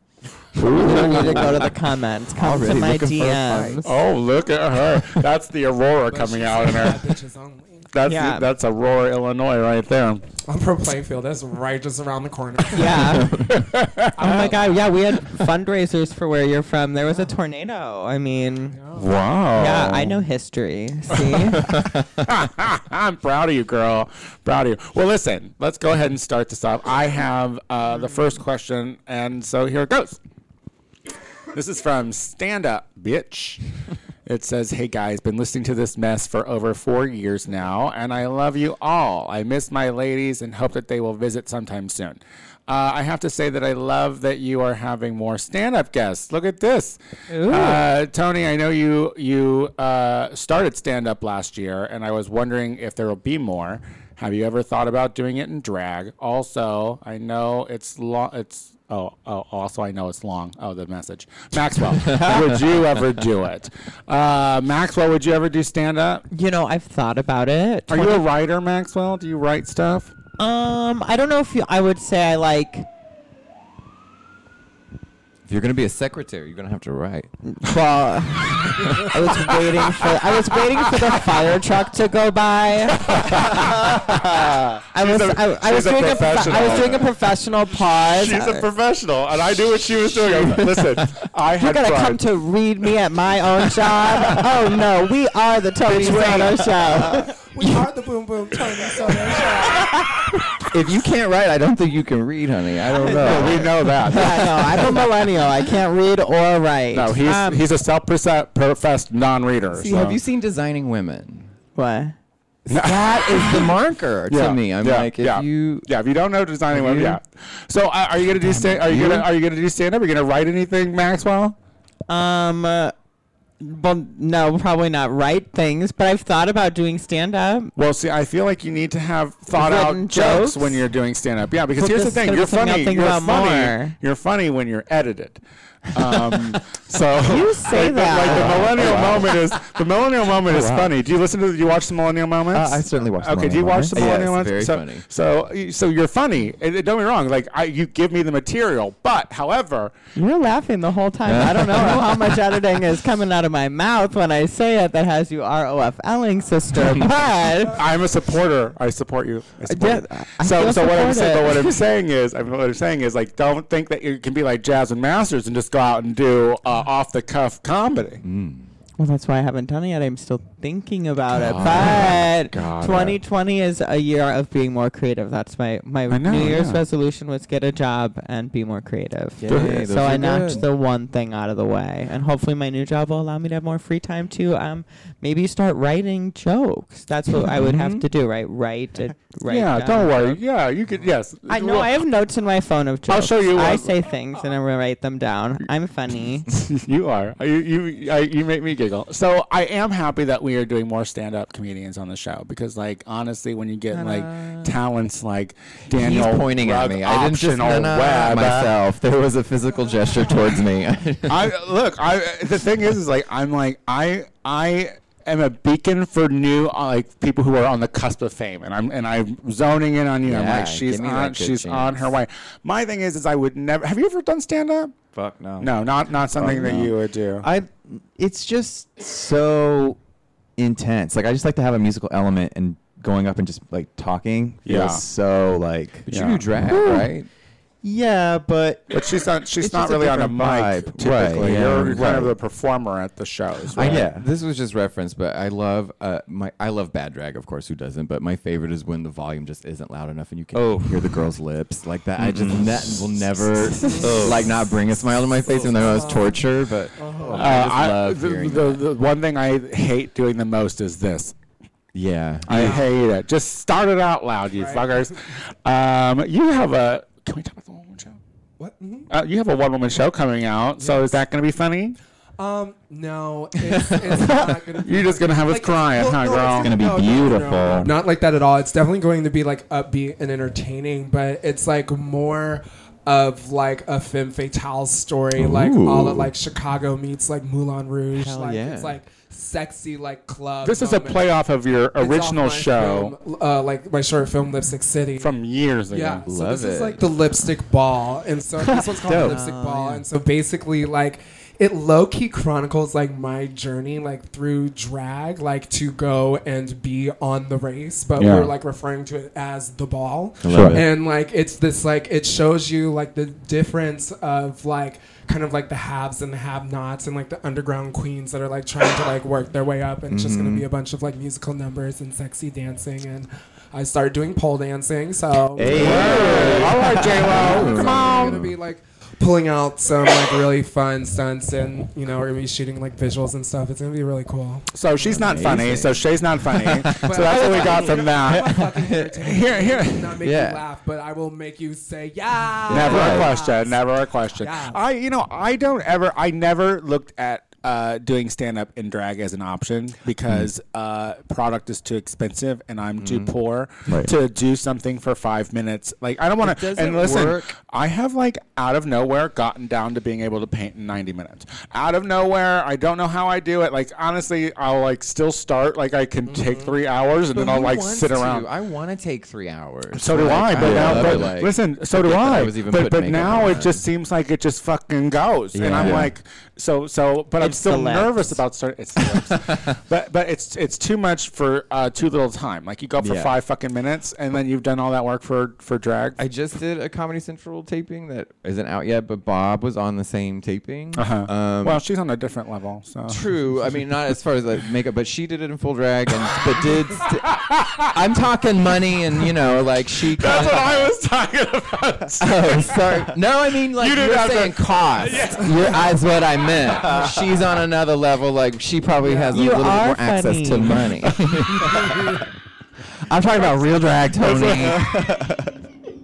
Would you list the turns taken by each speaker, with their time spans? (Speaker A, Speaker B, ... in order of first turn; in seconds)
Speaker A: 0.6-1.7, 2.4-3.8, 13.1-13.6, 21.6-22.2, 62.1-62.4, 75.5-77.3, 100.7-105.1, 109.7-111.5, 112.7-115.9, 116.7-117.2, 118.4-119.3, 138.6-139.2, 143.9-145.0, 151.3-152.4, 168.2-168.7, 171.3-173.2, 179.4-180.7, 203.9-204.8, 205.9-211.5, 220.2-222.2, 236.1-237.3, 241.0-242.0, 243.7-258.9, 261.9-262.8, 285.3-286.3, 288.1-289.0, 296.2-297.1, 299.2-300.0, 310.4-310.9, 320.1-320.7, 325.7-328.6, 335.0-339.1, 340.2-340.6, 342.7-343.2, 353.0-353.3, 356.4-357.5, 367.3-373.9, 375.6-376.1, 379.3-379.6, 383.0-383.4, 386.2-391.8, 393.1-397.3, 397.9-400.9, 402.2-412.2, 413.1-414.9
Speaker B: 0.6-3.8, 8.0-8.5, 12.7-13.4, 14.2-18.8, 19.5-21.7, 47.3-47.9, 66.3-68.2, 70.4-72.9, 77.4-88.7, 90.1-90.9, 91.6-97.7, 103.1-107.7, 111.7-112.1, 122.1-122.9, 123.6-127.7, 129.5-130.8, 131.8-133.9, 137.2-139.0, 150.2-157.8, 159.7-161.8, 169.0-190.4, 191.5-196.5, 377.4-378.4, 409.3-410.9
Speaker C: 0.6-1.5, 3.8-7.1, 7.9-10.2, 13.5-14.5, 18.9-20.2, 21.1-30.2, 31.5-33.6, 34.2-66.2, 67.9-70.1, 78.9-80.2, 82.9-87.1, 88.0-92.2, 93.8-94.5, 95.8-97.2, 103.0-105.0, 106.9-110.2, 112.7-113.7, 114.3-121.5, 127.8-149.9, 157.7-168.2, 176.1-176.8, 179.5-179.9, 189.5-191.9, 193.1-193.9, 196.5-208.7, 211.3-224.9, 225.6-227.4, 234.7-235.0, 236.1-236.4, 238.9-244.1, 257.3-261.3, 262.5-268.2, 269.1-272.0, 274.8-276.8, 290.6-293.1, 295.2-296.2, 308.2-308.5, 325.7-328.5, 334.7-338.7, 339.2-340.2, 342.7-368.5, 369.9-386.2, 390.9-393.2, 397.2-397.9, 400.1-403.1, 403.6-405.9, 414.2-414.8
Speaker D: 2.4-3.8, 138.5-139.2, 140.5-140.9, 142.5-144.1, 225.1-225.7, 226.3-230.0, 230.6-236.1, 236.6-237.1, 237.8-238.9, 239.6-242.3, 243.7-244.3, 250.5-251.3, 252.2-254.5, 276.6-277.9, 298.6-299.9, 310.5-310.8, 325.5-327.0, 342.7-343.3, 353.9-354.1, 370.6-371.3, 375.6-376.1, 406.8-407.3, 414.4-415.6
Speaker E: 6.1-7.9, 10.4-13.2, 14.2-14.9, 18.7-19.1, 97.1-100.2, 253.8-254.3, 255.7-256.4, 257.0-257.6, 262.5-262.9, 264.5-265.0, 268.6-269.1, 270.8-271.1, 272.4-291.4, 291.9-335.2, 336.9-344.8, 366.3-366.8, 409.0-409.4